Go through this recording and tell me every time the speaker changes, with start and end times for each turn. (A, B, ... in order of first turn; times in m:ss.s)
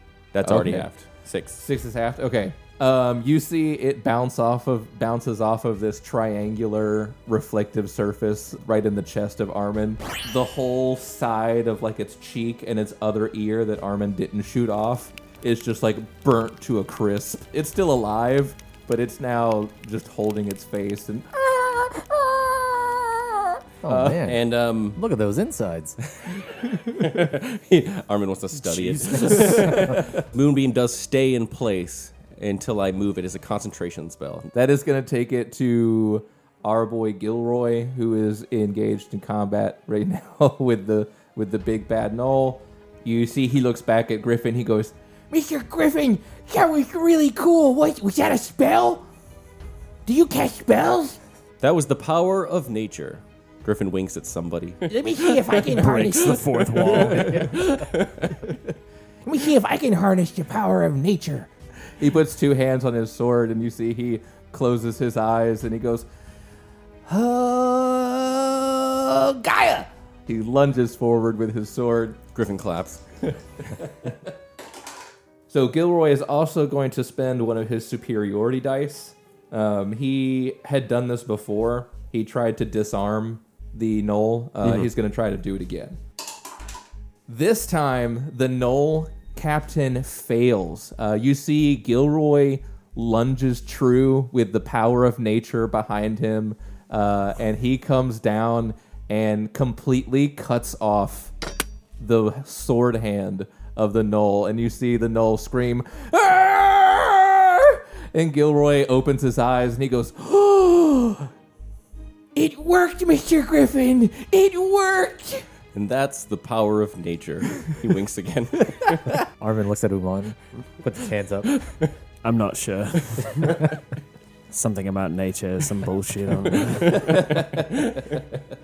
0:00.3-0:01.6 A
0:00.4-0:00.9 B
0:01.6-0:24.2 B
0:23.8-0:26.0 C
0:24.2-0:25.0 A
0:26.3-0:34.5 A
0:26.6-0:27.0 B
0:28.6-0:30.0 D
0:29.2-0:30.0 B
0:34.5-0:49.0 B
0:50.1-0:51.2 B
0:51.6-0:55.7 A
0:54.9-0:57.9 B
0:55.7-0:57.6 D
0:56.8-0:58.5 A
0:59.3-1:06.1 B
1:07.1-1:12.2 B
1:12.4-1:13.0 A
1:13.8-1:14.1 B
1:15.5-1:26.0 B
1:27.3-1:41.3 B
1:42.0-1:51.3 B
1:52.4-1:55.4 B
1:55.7-1:59.1 A
1:59.4-2:01.5 C
2:01.6-2:01.9 A
2:02.2-2:03.7 D
2:04.5-2:07.4 D
2:06.9-2:08.2 B